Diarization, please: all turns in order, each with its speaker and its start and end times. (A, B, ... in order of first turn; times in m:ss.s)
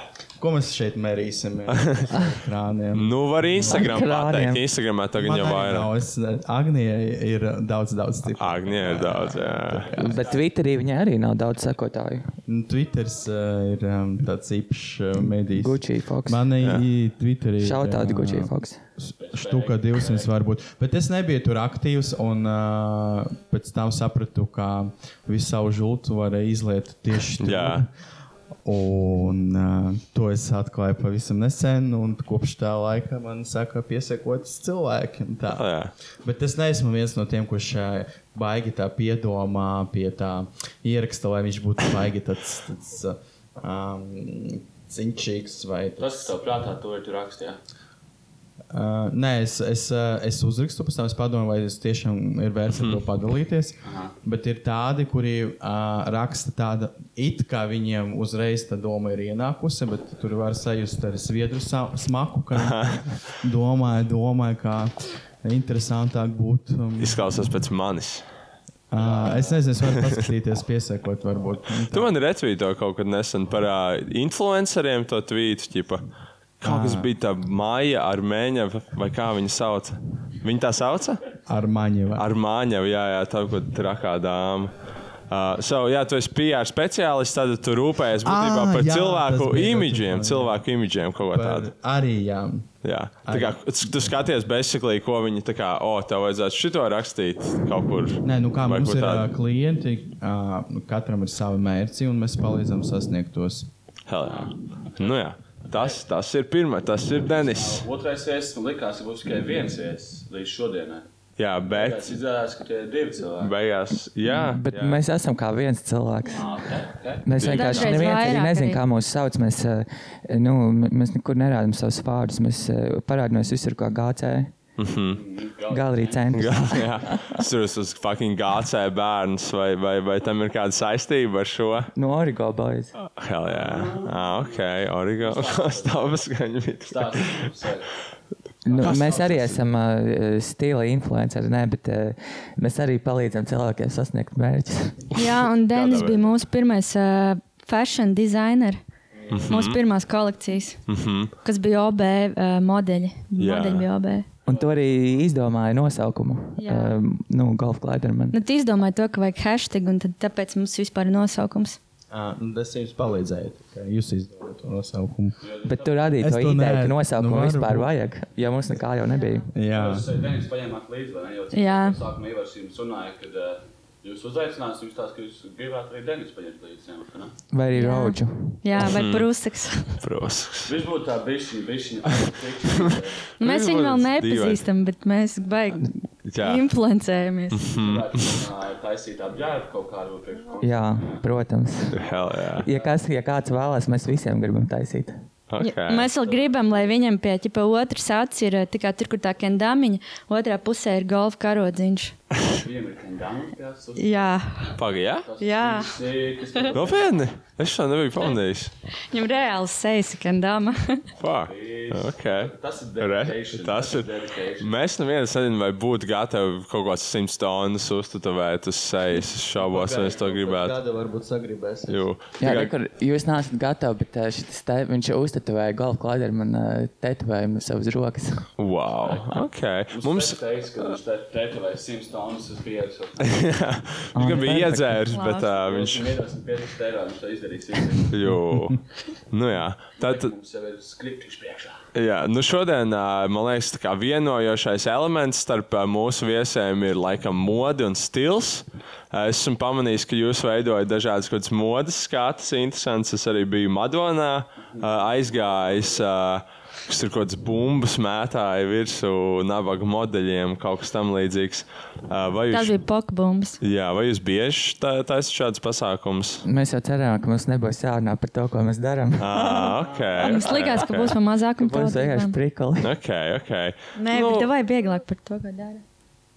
0:00.4-0:03.8 A
0:02.9-0:05.9 B
0:03.7-0:04.6 C
0:05.1-0:10.4 A
0:08.4-0:09.9 B
0:10.0-0:12.3 C
0:12.5-0:27.9 A
0:15.5-0:16.4 C
0:17.6-0:18.8 C
0:19.2-0:20.3 D
0:27.4-0:27.8 B
0:28.6-0:35.7 A
0:35.5-0:35.9 B
0:36.2-0:46.3 A
0:46.0-0:47.6 D
0:48.7-1:04.9 A
0:52.8-0:53.0 B
0:53.8-0:54.2 D
1:02.6-1:03.0 B
1:05.4-1:07.4 A
1:07.0-1:08.3 B
1:08.9-1:12.1 A
1:09.0-1:09.6 D
1:11.9-1:16.0 B
1:16.6-1:21.2 B
1:16.6-1:17.1 A
1:21.5-1:22.3 A
1:22.2-1:24.7 B
1:25.3-1:31.7 B
1:28.2-1:30.6 A
1:31.3-1:32.7 A
1:32.8-1:39.3 B
1:33.2-1:34.1 A
1:38.2-1:43.7 A
1:44.1-1:47.8 B
1:44.2-1:46.0 D
1:47.2-1:51.1 D
1:51.4-1:52.1 B
1:51.6-1:53.6 D
1:53.4-1:55.0 B
1:54.3-1:56.5 C
1:56.3-1:56.5 E
1:56.4-1:58.0 D
1:57.2-2:04.5 C
1:57.4-1:58.2 B
1:57.5-1:58.8 E
2:04.8-2:05.2 B
2:05.1-2:06.2 D
2:05.7-2:07.3 C
2:06.3-2:11.9 B
2:12.0-2:12.9 C
2:13.0-2:17.5 B
2:13.5-2:16.2 D
2:16.9-2:18.0 D
2:18.6-2:19.6 D
2:18.7-2:25.0 C
2:18.8-2:19.4 B
2:25.1-2:26.3 B
2:25.1-2:28.8 E
2:29.1-2:29.6 D
2:29.3-2:29.8 B
2:29.5-2:30.8 E
2:30.9-2:31.3 B
2:31.4-2:34.3 E
2:33.4-2:33.9 B
2:34.5-2:38.4 C
2:36.6-2:37.0 E
2:38.3-2:41.8 E
2:42.1-2:45.4 A
2:45.4-2:46.2 D
2:45.7-2:49.5 C
2:46.2-2:47.9 A
2:49.5-2:50.1 A
2:49.7-2:57.4 D
2:51.5-2:52.0 E
2:57.5-2:58.6 C
2:57.7-3:00.0 E
2:58.8-2:59.3 B
3:00.0-3:00.8 B
3:00.7-3:03.3 D
3:02.9-3:04.6 B
3:03.4-3:07.7 E
3:06.2-3:06.6 B
3:07.5-3:08.3 B
3:07.7-3:11.2 D
3:10.6-3:12.0 C
3:11.9-3:12.7 B
3:11.9-3:13.0 D
3:12.6-3:15.2 C
3:15.5-3:16.1 B
3:15.6-3:22.1 E
3:16.2-3:17.0 D
3:22.5-3:24.4 D
3:24.0-3:24.8 E
3:24.8-3:25.3 B
3:25.2-3:27.3 D
3:25.4-3:25.9 E
3:26.7-3:28.7 B
3:29.1-3:31.0 E
3:31.2-3:40.8 B
3:31.5-3:34.7 D
3:39.6-3:40.5 D
3:39.7-3:42.0 A
3:41.9-3:42.7 B
3:42.4-3:48.5 C
3:48.6-3:50.9 B
3:49.0-3:53.6 D
3:53.2-3:56.1 B
3:54.2-3:55.0 C
3:55.1-3:55.6 E
3:55.5-3:58.2 D
3:58.1-4:00.3 B
4:00.0-4:01.8 D
4:02.0-4:22.8 B
4:14.7-4:16.0 D
4:22.5-4:23.6 E
4:23.6-4:26.4 B
4:26.4-4:30.3 C
4:29.2-4:31.2 B
4:30.2-4:32.4 E
4:31.6-4:32.9 C
4:32.8-4:34.5 B
4:34.0-4:35.8 E